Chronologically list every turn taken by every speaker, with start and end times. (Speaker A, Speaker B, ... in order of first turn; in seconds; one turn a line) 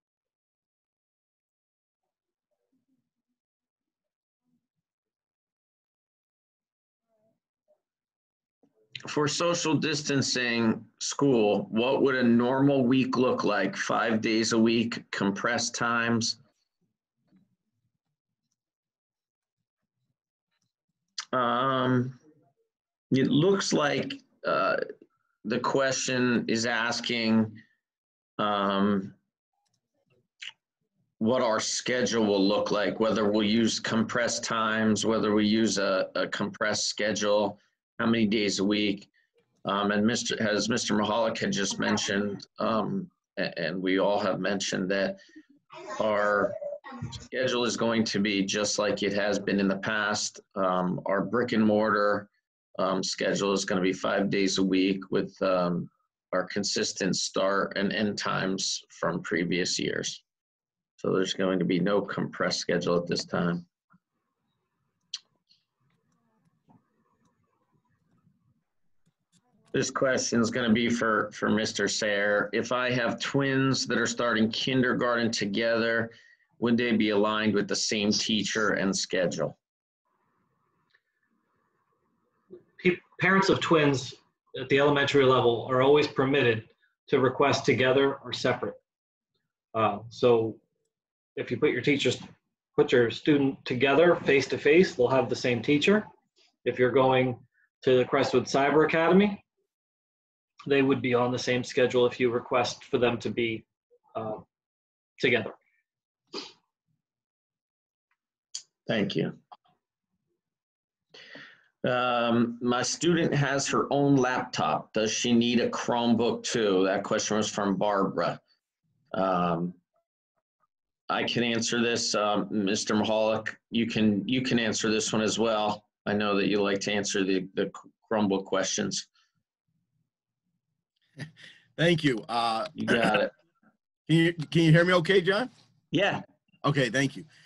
Speaker A: 9.1-16.4
Speaker A: 21.3-22.2
Speaker A: 23.1-24.8
Speaker A: 25.4-27.6
Speaker A: 28.4-29.2
Speaker A: 31.2-39.1
Speaker A: 39.6-45.2
Speaker A: 46.0-46.5
Speaker A: 47.3-60.2
Speaker A: 61.0-63.7
Speaker A: 69.7-79.6
Speaker B: 82.8-88.8
Speaker B: 89.7-90.6
Speaker B: 91.4-96.1
Speaker B: 96.7-99.4
Speaker B: 100.7-103.6
Speaker B: 104.2-104.4
Speaker B: 105.2-105.5
Speaker A: 108.9-109.4
Speaker A: 111.8-118.4
Speaker A: 119.1-119.8
Speaker A: 121.1-129.1
Speaker C: 131.8-133.2
Speaker A: 132.8-133.3
Speaker C: 134.1-135.5
Speaker A: 135.9-136.2
Speaker C: 136.6-137.3